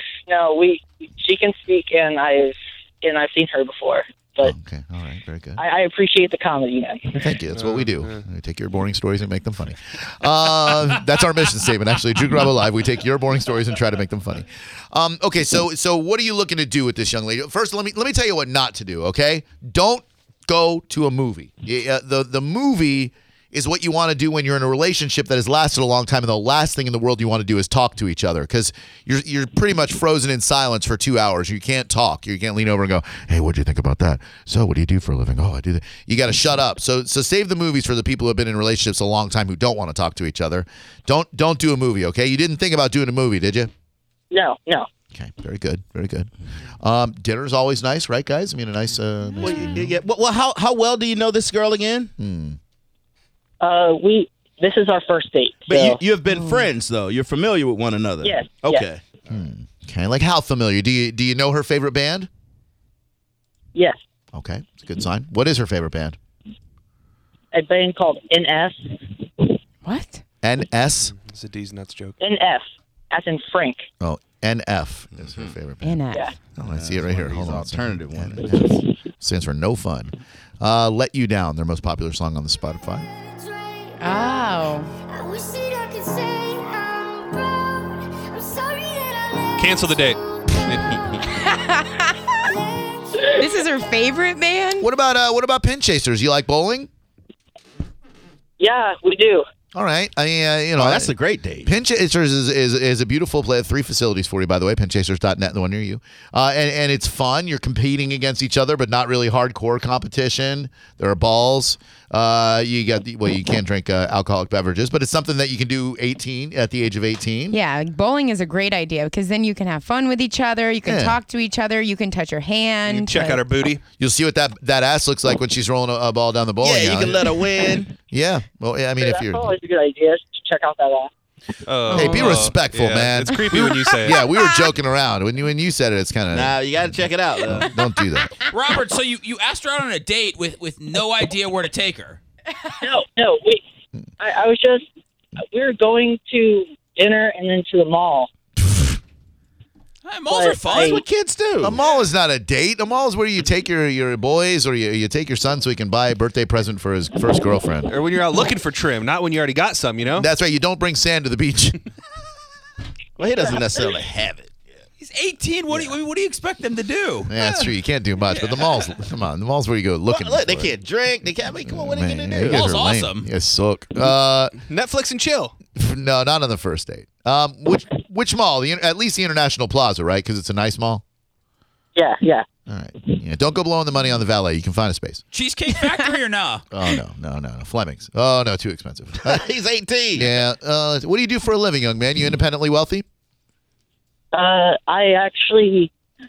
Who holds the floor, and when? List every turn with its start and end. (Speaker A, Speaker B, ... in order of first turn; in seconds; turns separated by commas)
Speaker A: 0.3-4.5, Speaker B: 4.4-5.6, Speaker A: 5.6-7.3, Speaker B: 7.2-43.7, Speaker C: 7.5-8.2, Speaker A: 44.3-44.9, Speaker B: 45.1-49.9, Speaker D: 49.4-52.1, Speaker B: 52.2-52.6, Speaker A: 53.6-56.0, Speaker D: 55.7-59.0, Speaker E: 56.2-56.7, Speaker A: 58.2-58.8, Speaker B: 59.3-62.3, Speaker B: 64.3-66.2, Speaker A: 67.5-69.0, Speaker E: 69.8-70.2, Speaker B: 70.4-71.1, Speaker C: 71.1-72.2, Speaker A: 72.2-73.9, Speaker B: 74.0-76.0, Speaker D: 75.2-75.5, Speaker E: 75.8-76.3, Speaker B: 76.6-83.1, Speaker D: 76.6-78.7, Speaker E: 84.0-84.9, Speaker C: 89.6-91.0, Speaker E: 91.2-92.3, Speaker E: 93.3-94.9, Speaker B: 94.8-96.9, Speaker A: 98.6-99.5, Speaker B: 99.7-101.1, Speaker D: 100.8-101.7, Speaker B: 101.6-117.6, Speaker E: 117.5-123.5, Speaker B: 120.8-121.2, Speaker C: 122.8-123.8, Speaker B: 124.0-129.5, Speaker D: 126.6-127.9, Speaker A: 129.0-131.1, Speaker C: 131.7-134.2, Speaker E: 131.9-132.3, Speaker B: 131.9-138.3, Speaker E: 133.9-134.7, Speaker D: 136.3-137.7, Speaker F: 138.5-142.2, Speaker A: 142.8-143.6, Speaker A: 144.2-144.8, Speaker A: 145.4-148.3, Speaker F: 150.1-151.0, Speaker A: 150.3-151.0, Speaker D: 150.7-151.8, Speaker B: 151.6-157.9, Speaker C: 157.9-160.3, Speaker B: 160.1-161.8, Speaker D: 163.2-164.5, Speaker F: 165.0-167.3, Speaker B: 167.3-170.8, Speaker C: 167.4-167.7, Speaker D: 170.1-172.8, Speaker B: 171.6-174.6, Speaker F: 172.5-173.3, Speaker C: 174.6-175.5, Speaker B: 175.8-181.0, Speaker A: 181.9-182.4, Speaker B: 182.7-185.2, Speaker F: 185.3-186.7, Speaker B: 186.7-189.4, Speaker D: 189.2-190.3, Speaker B: 190.1-193.0, Speaker A: 194.3-195.9